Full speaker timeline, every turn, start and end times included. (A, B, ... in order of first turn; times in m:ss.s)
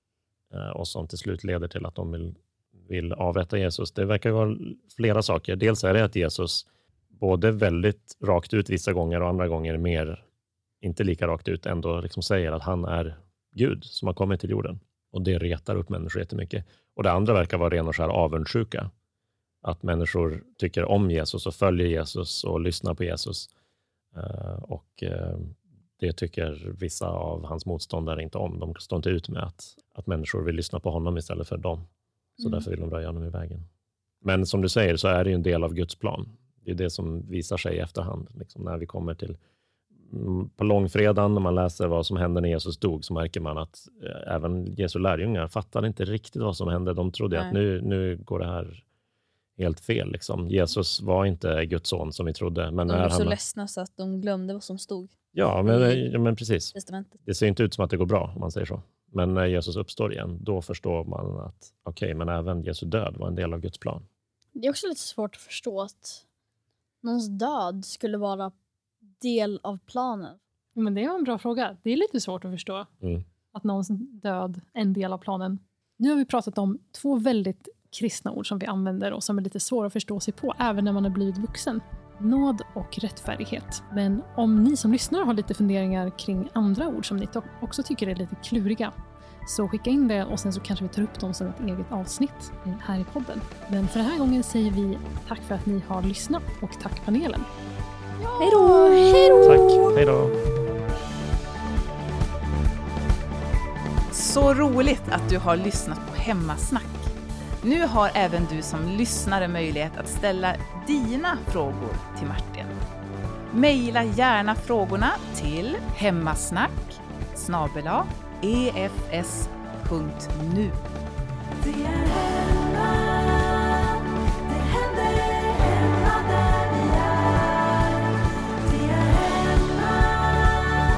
0:00.5-0:10.2 A
0:10.8-0:18.9 A
0:19.6-0:23.5 A
0:24.1-0:31.8 A
0:32.4-0:32.6 B
0:32.4-0:33.6 A
0:34.2-0:39.4 A
0:40.1-0:48.8 A
0:49.6-0:53.4 A
0:52.9-0:55.1 C
0:55.3-1:04.0 A
0:55.6-0:56.0 C
0:56.7-0:57.1 C
1:04.5-1:06.2 B
1:07.0-1:08.5 B
1:09.2-1:10.4 B
1:10.8-1:12.9 D
1:13.5-1:37.5 D
1:38.2-1:40.0 B
1:38.4-1:39.2 E
1:39.4-1:40.4 A
1:44.1-1:47.1 E
1:47.6-1:52.7 E
1:53.5-2:00.8 E
2:01.6-2:03.2 E
2:04.8-2:06.9 E